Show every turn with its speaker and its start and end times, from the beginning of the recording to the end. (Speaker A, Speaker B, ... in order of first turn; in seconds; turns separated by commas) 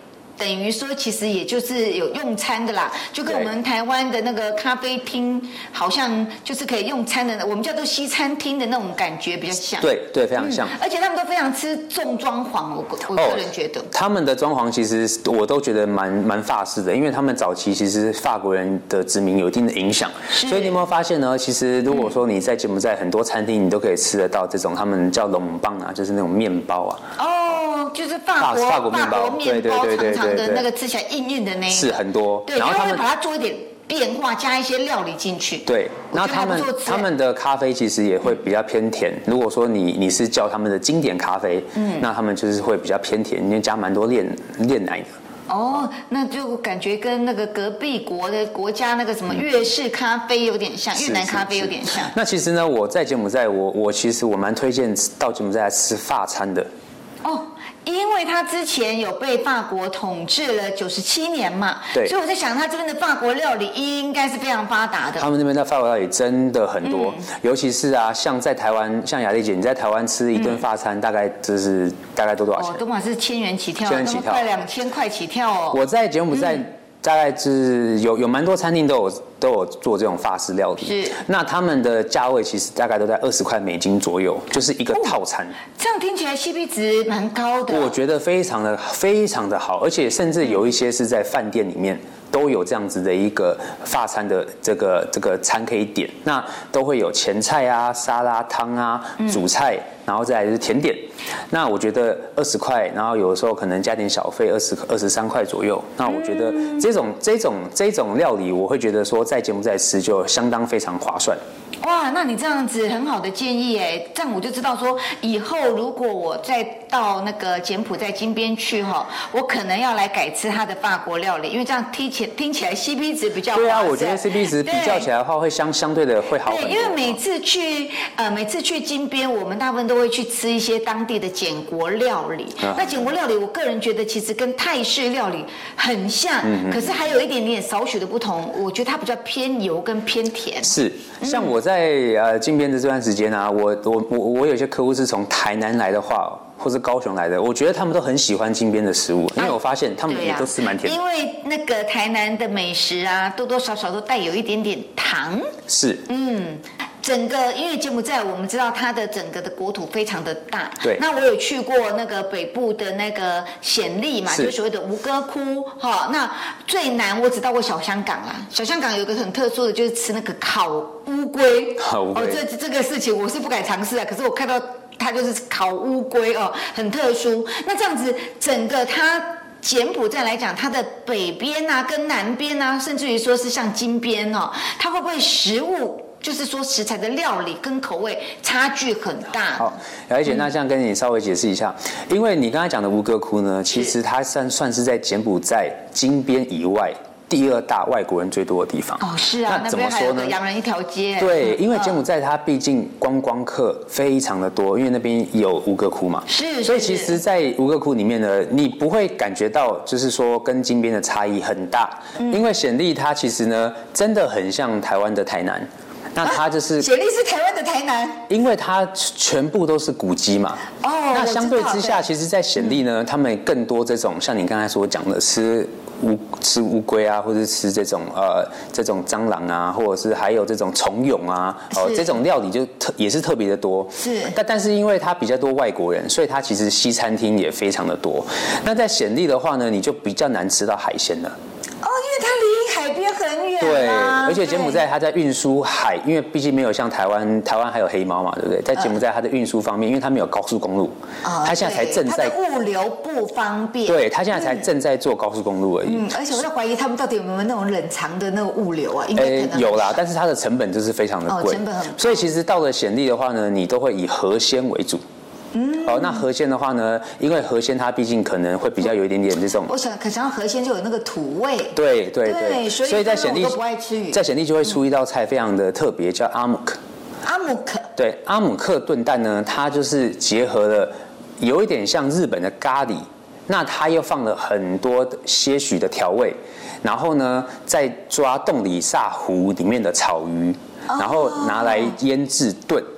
Speaker A: 0.4-13.9, Speaker B: 9.8-10.7, Speaker B: 13.2-27.0, Speaker A: 20.3-20.8, Speaker A: 27.2-37.1, Speaker B: 28.4-30.7, Speaker B: 31.7-33.0, Speaker B: 35.7-45.1, Speaker A: 41.8-42.1, Speaker A: 45.5-52.1, Speaker B: 51.0-56.7, Speaker A: 57.2-65.3, Speaker B: 65.2-72.8, Speaker A: 66.8-67.3, Speaker A: 70.3-70.6, Speaker A: 72.6-75.8, Speaker B: 73.8-74.5, Speaker B: 75.7-85.6, Speaker A: 76.3-76.6, Speaker A: 80.8-81.2, Speaker A: 85.8-87.9, Speaker B: 87.7-111.4, Speaker A: 106.0-106.9, Speaker A: 111.8-125.1, Speaker B: 123.5-127.2, Speaker A: 126.4-141.6, Speaker B: 132.6-133.1, Speaker B: 136.4-137.0, Speaker B: 140.6-151.0, Speaker A: 150.1-155.6, Speaker B: 155.7-156.0, Speaker A: 156.1-189.8, Speaker B: 171.8-172.4, Speaker B: 189.6-200.4, Speaker A: 199.0-202.0, Speaker B: 201.2-216.9, Speaker A: 206.3-207.2, Speaker A: 216.2-218.3, Speaker B: 218.3-241.4, Speaker A: 220.8-222.1, Speaker A: 231.7-232.2, Speaker A: 234.0-234.4, Speaker A: 241.8-244.8, Speaker B: 243.6-252.3, Speaker A: 251.2-254.7, Speaker B: 253.9-256.1, Speaker A: 255.8-260.0, Speaker B: 259.1-265.0, Speaker A: 261.3-262.2, Speaker A: 265.5-266.2, Speaker B: 265.8-269.7, Speaker A: 269.7-274.2, Speaker B: 271.8-273.6, Speaker B: 274.1-276.8, Speaker A: 277.2-277.9, Speaker B: 278.0-292.9, Speaker A: 290.9-292.0